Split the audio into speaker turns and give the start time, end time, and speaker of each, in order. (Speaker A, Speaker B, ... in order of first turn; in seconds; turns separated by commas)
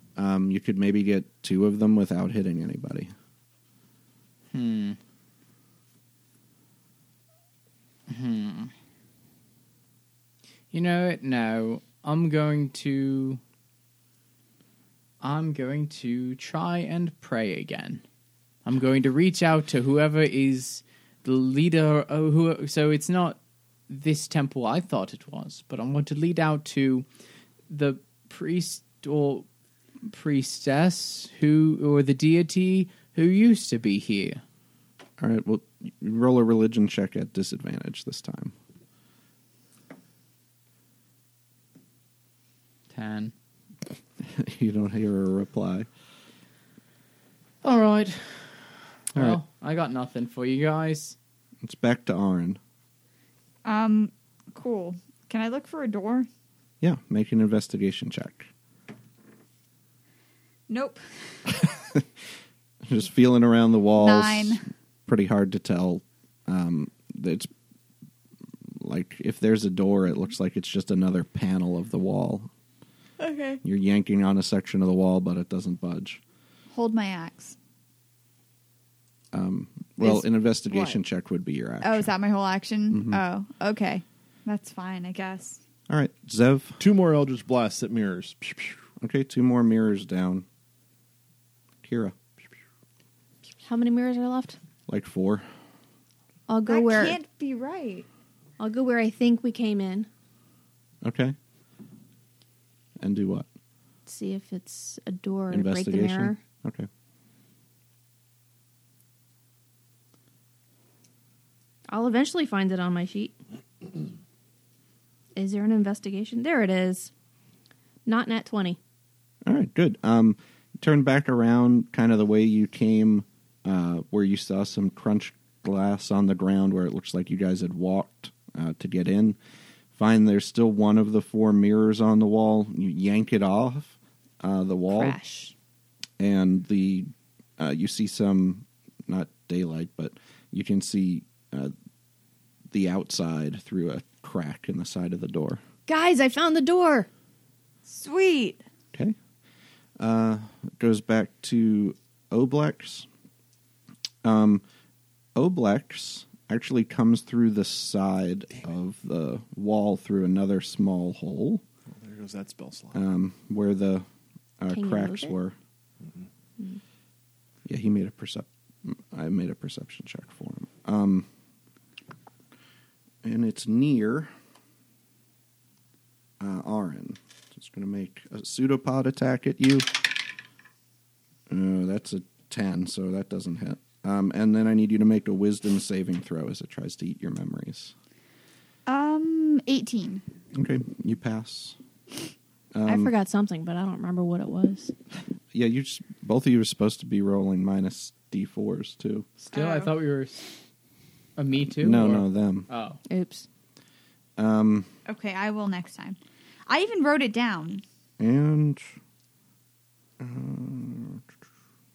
Speaker A: 0.2-3.1, Speaker B: 4.5-5.0, Speaker B: 8.1-8.7, Speaker B: 10.7-13.4, Speaker B: 15.2-18.0, Speaker B: 18.6-23.4, Speaker B: 23.9-27.1, Speaker B: 27.7-29.5, Speaker B: 30.1-34.4, Speaker A: 35.2-38.5, Speaker B: 42.9-43.3, Speaker A: 44.2-45.9, Speaker B: 47.6-51.1, Speaker A: 49.1-49.4, Speaker A: 51.6-52.6, Speaker C: 53.6-56.3, Speaker A: 56.8-58.5, Speaker C: 60.7-61.5, Speaker A: 61.5-62.1, Speaker A: 62.8-67.5, Speaker C: 64.0-64.6, Speaker A: 68.8-72.5, Speaker C: 73.2-73.6, Speaker A: 73.6-76.2, Speaker C: 76.7-77.5, Speaker A: 79.3-82.2, Speaker C: 81.8-85.6, Speaker A: 82.9-83.2, Speaker A: 85.9-86.8, Speaker D: 86.8-88.8, Speaker A: 89.0-90.4, Speaker A: 91.8-92.2, Speaker E: 93.6-94.6, Speaker A: 94.9-95.4, Speaker E: 96.5-97.2, Speaker C: 96.7-98.1, Speaker E: 98.6-100.1, Speaker A: 101.0-101.3, Speaker A: 103.0-103.5, Speaker E: 104.0-106.4, Speaker A: 105.5-106.9, Speaker E: 111.9-113.4, Speaker E: 115.3-117.1, Speaker E: 118.0-118.8, Speaker A: 119.4-129.4, Speaker A: 129.9-135.2, Speaker E: 134.9-135.5, Speaker A: 136.2-141.7, Speaker A: 142.7-145.6, Speaker E: 145.9-147.1, Speaker C: 147.9-148.6, Speaker A: 150.0-153.1, Speaker A: 154.2-154.6, Speaker A: 155.3-161.6, Speaker D: 161.9-163.0, Speaker A: 162.9-164.1, Speaker A: 164.6-165.6, Speaker E: 164.7-165.4, Speaker A: 167.7-171.3, Speaker A: 173.2-174.3, Speaker A: 176.4-180.1, Speaker A: 181.5-187.9, Speaker C: 188.9-190.2, Speaker A: 190.5-191.8, Speaker A: 192.7-193.1, Speaker E: 192.8-194.9, Speaker A: 195.5-199.3, Speaker B: 199.4-200.5, Speaker C: 199.5-199.9, Speaker B: 201.4-203.0, Speaker A: 201.6-202.7, Speaker E: 203.1-203.4, Speaker A: 204.4-204.9, Speaker C: 205.1-207.8, Speaker A: 208.2-208.9, Speaker A: 210.2-211.2